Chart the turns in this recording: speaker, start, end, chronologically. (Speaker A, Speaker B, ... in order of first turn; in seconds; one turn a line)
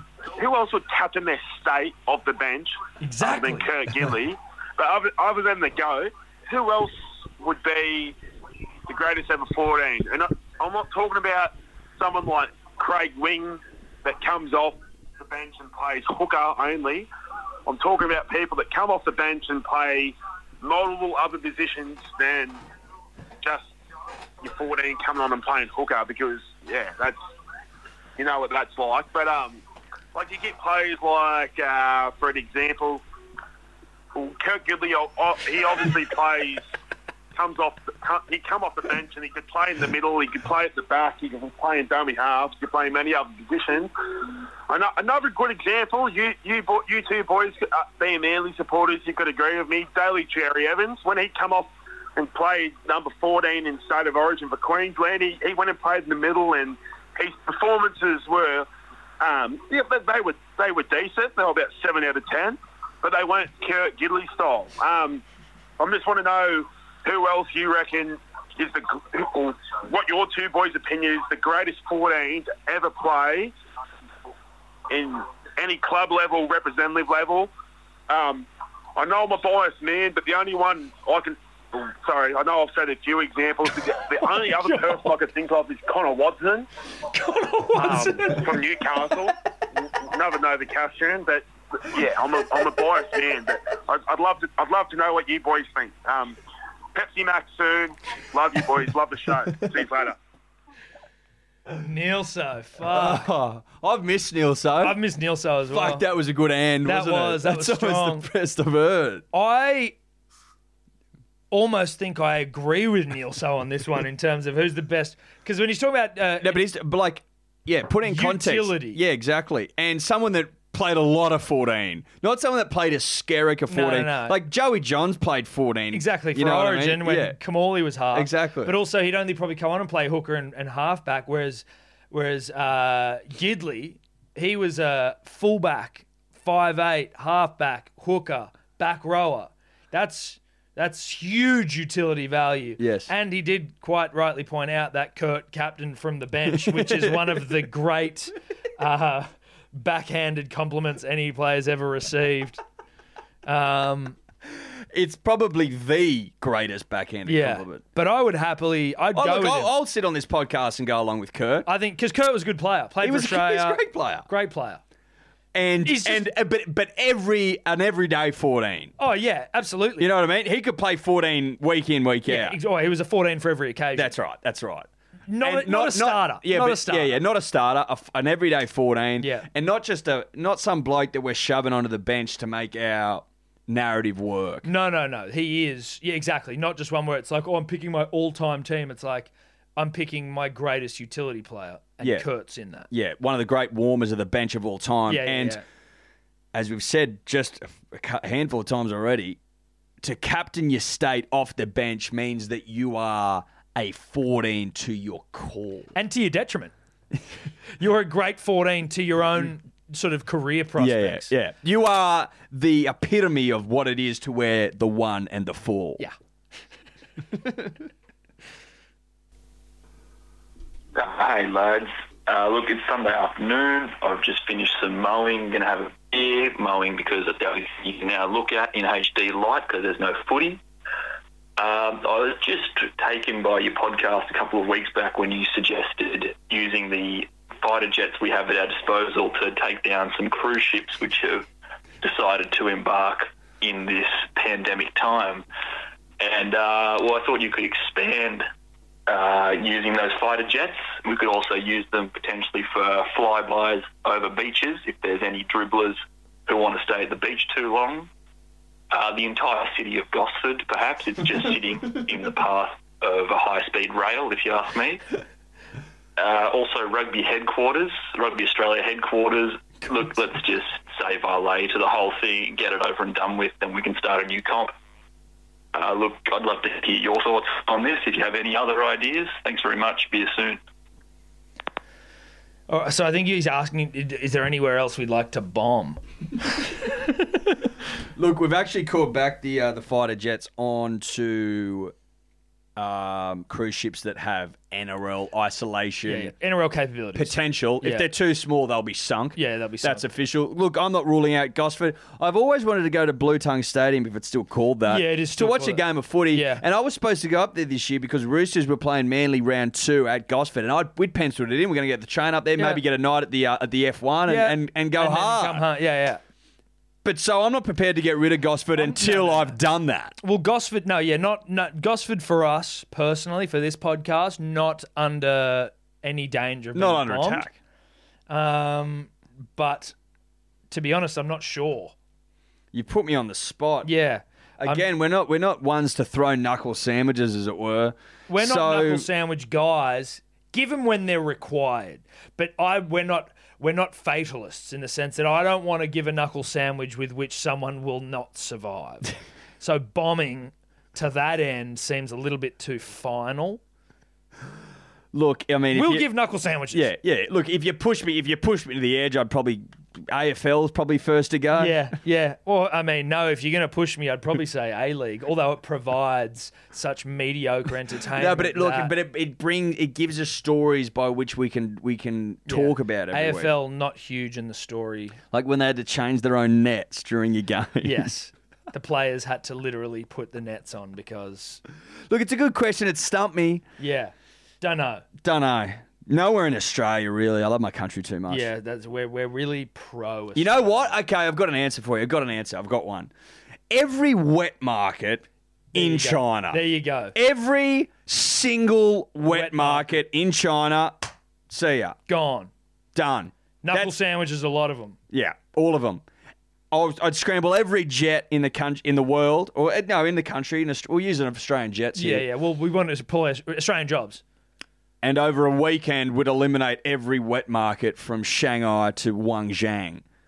Speaker A: 0.3-8.1
Speaker B: 3.0-3.7
Speaker A: 8.9-17.1
Speaker A: 17.6-22.6
Speaker A: 24.4-27.2
Speaker A: 28.2-29.6
Speaker A: 30.1-33.0
Speaker A: 34.1-36.6
Speaker A: 37.3-43.9
Speaker A: 44.7-58.7
Speaker A: 59.2-65.2
Speaker A: 65.8-73.5
Speaker A: 74.9-77.5
Speaker A: 78.1-86.7
Speaker B: 84.5-84.8
Speaker B: 87.1-88.5
Speaker A: 87.8-96.4
Speaker A: 96.9-100.2
Speaker B: 101.8-103.3
Speaker C: 102.8-105.0
Speaker B: 104.8-106.0
Speaker C: 105.7-109.2
Speaker B: 106.8-108.3
Speaker B: 109.3-110.0
Speaker B: 111.5-116.6
Speaker C: 116.4-127.4
Speaker B: 118.0-119.0
Speaker B: 123.7-124.4
Speaker B: 125.9-152.6
Speaker C: 128.1-128.8
Speaker C: 142.8-143.1
Speaker C: 146.5-147.4
Speaker B: 153.4-154.2
Speaker C: 154.9-157.8
Speaker B: 157.2-159.7
Speaker C: 159.1-161.7
Speaker B: 161.7-164.8
Speaker C: 163.0-164.3
Speaker C: 165.5-168.9
Speaker B: 165.8-166.3
Speaker B: 169.0-170.1
Speaker C: 170.0-172.6
Speaker B: 172.3-174.1
Speaker C: 173.9-174.9
Speaker B: 175.3-177.2
Speaker C: 175.4-184.7
Speaker B: 179.2-179.5
Speaker B: 184.6-192.9
Speaker C: 192.0-192.3
Speaker C: 192.9-195.6
Speaker B: 195.1-195.6
Speaker C: 196.5-199.4
Speaker C: 200.0-205.9
Speaker B: 205.9-206.7
Speaker B: 207.8-211.3
Speaker C: 210.8-216.0
Speaker D: 220.9-230.6
Speaker D: 231.6-241.4
Speaker D: 242.0-245.4
Speaker D: 246.2-248.4
Speaker D: 249.1-258.1
Speaker D: 258.9-265.0
Speaker D: 266.2-274.7
Speaker D: 275.7-280.6
Speaker B: 282.7-286.0
Speaker C: 288.1-291.9
Speaker C: 292.8-296.3
Speaker B: 296.1-298.1
Speaker C: 297.1-315.6
Speaker B: 299.4-300.1
Speaker B: 304.9-306.6
Speaker B: 314.3-316.2
Speaker C: 317.0-320.2
Speaker B: 318.8-319.6
Speaker B: 320.2-327.4
Speaker C: 326.7-327.6
Speaker B: 328.3-329.9
Speaker B: 330.7-331.9
Speaker C: 332.7-333.9
Speaker B: 333.8-334.8
Speaker C: 334.6-339.1
Speaker B: 338.3-353.6
Speaker C: 355.1-356.1
Speaker B: 355.7-356.9
Speaker C: 356.7-361.8
Speaker B: 361.5-368.9
Speaker C: 368.1-373.5
Speaker B: 372.5-375.2
Speaker C: 375.3-378.1
Speaker B: 377.8-381.6
Speaker C: 382.1-383.6
Speaker B: 383.8-385.1
Speaker C: 385.2-388.5
Speaker B: 388.3-391.0
Speaker C: 390.3-393.1
Speaker C: 393.7-401.9
Speaker B: 395.7-397.1
Speaker B: 399.2-400.0
Speaker B: 402.1-402.5
Speaker C: 402.9-403.9
Speaker B: 403.6-405.0
Speaker C: 405.1-406.0
Speaker C: 406.7-412.2
Speaker B: 411.9-414.2
Speaker C: 415.0-420.0